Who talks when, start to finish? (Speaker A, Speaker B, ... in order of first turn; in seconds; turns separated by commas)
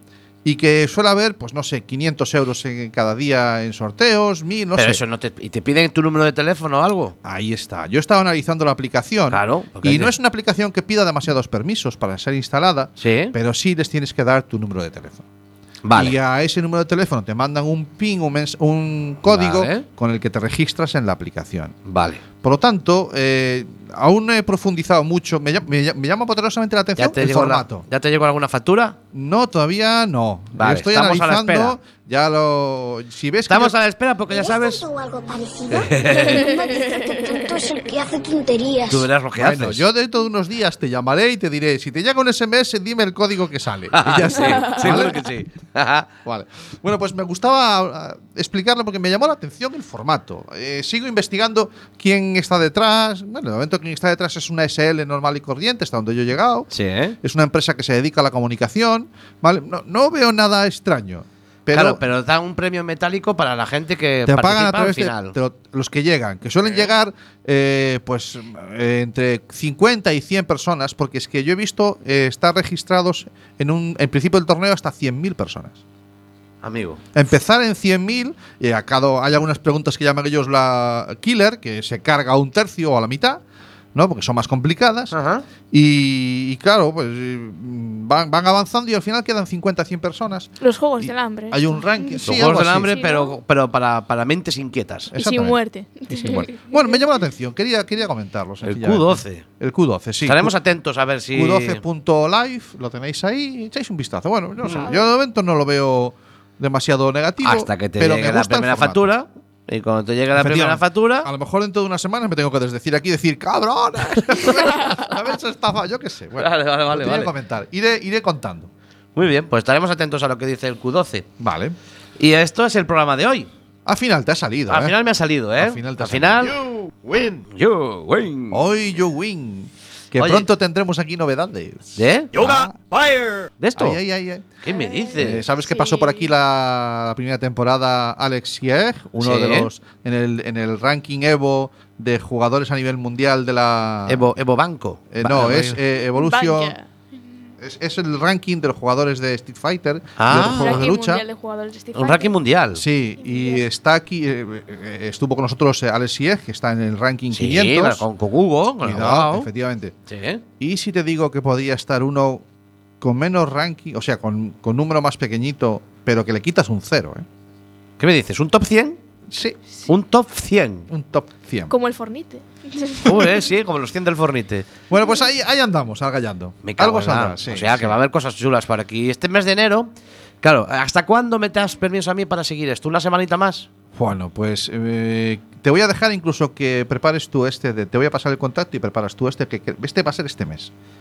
Speaker A: 0.4-5.0, Speaker B: 4.8-7.2, Speaker A: 7.2-15.2, Speaker B: 9.3-10.1, Speaker B: 13.0-13.3, Speaker B: 15.8-16.1, Speaker A: 15.9-21.8, Speaker B: 19.3-19.9, Speaker B: 21.9-22.2, Speaker A: 22.4-27.9, Speaker B: 27.0-29.0, Speaker A: 29.1-33.8, Speaker B: 30.6-31.8, Speaker B: 33.5-34.8, Speaker C: 34.3-39.1, Speaker B: 35.7-36.5, Speaker D: 36.1-37.8, Speaker B: 38.9-39.9, Speaker A: 39.4-45.3, Speaker B: 43.9-46.1, Speaker A: 46.2-56.7, Speaker B: 56.7-57.2, Speaker A: 57.2-62.0, Speaker B: 61.7-65.4, Speaker A: 64.3-75.8, Speaker B: 76.6-77.0, Speaker A: 77.2-83.4, Speaker A: 84.0-85.2, Speaker B: 85.1-85.5, Speaker A: 85.7-92.9, Speaker D: 90.6-92.2, Speaker B: 92.2-95.1, Speaker D: 92.8-93.4, Speaker A: 95.1-100.5, Speaker D: 95.2-96.7, Speaker B: 98.6-99.5, Speaker B: 100.2-101.8, Speaker A: 101.3-109.1, Speaker B: 107.4-111.3, Speaker A: 110.3-118.7, Speaker B: 114.3-114.8, Speaker B: 116.4-117.3, Speaker B: 119.2-121.3, Speaker A: 121.4-121.8, Speaker B: 122.2-123.5, Speaker A: 123.9-125.0, Speaker B: 124.7-126.6, Speaker A: 125.6-126.6, Speaker B: 127.4-128.6, Speaker A: 128.5-134.5, Speaker B: 130.2-130.5, Speaker B: 132.0-132.6, Speaker B: 133.6-134.0, Speaker B: 134.6-135.4, Speaker D: 134.7-136.3, Speaker A: 135.2-144.3, Speaker B: 139.2-139.7, Speaker B: 144.1-145.8, Speaker A: 145.1-146.8, Speaker D: 146.1-146.9, Speaker A: 147.6-151.2, Speaker B: 150.2-150.8, Speaker D: 150.3-152.4, Speaker B: 151.9-152.8, Speaker A: 152.8-158.1, Speaker D: 153.2-153.7, Speaker B: 157.3-159.5, Speaker A: 158.8-159.9, Speaker B: 160.1-160.4, Speaker A: 160.6-162.4, Speaker A: 163.0-167.2, Speaker B: 168.0-169.0, Speaker A: 169.3-169.6, Speaker B: 169.9-170.9, Speaker A: 170.9-171.7, Speaker D: 171.7-173.3, Speaker B: 173.0-174.7, Speaker A: 174.9-177.9, Speaker B: 176.6-179.9, Speaker B: 180.4-183.7, Speaker A: 183.9-190.7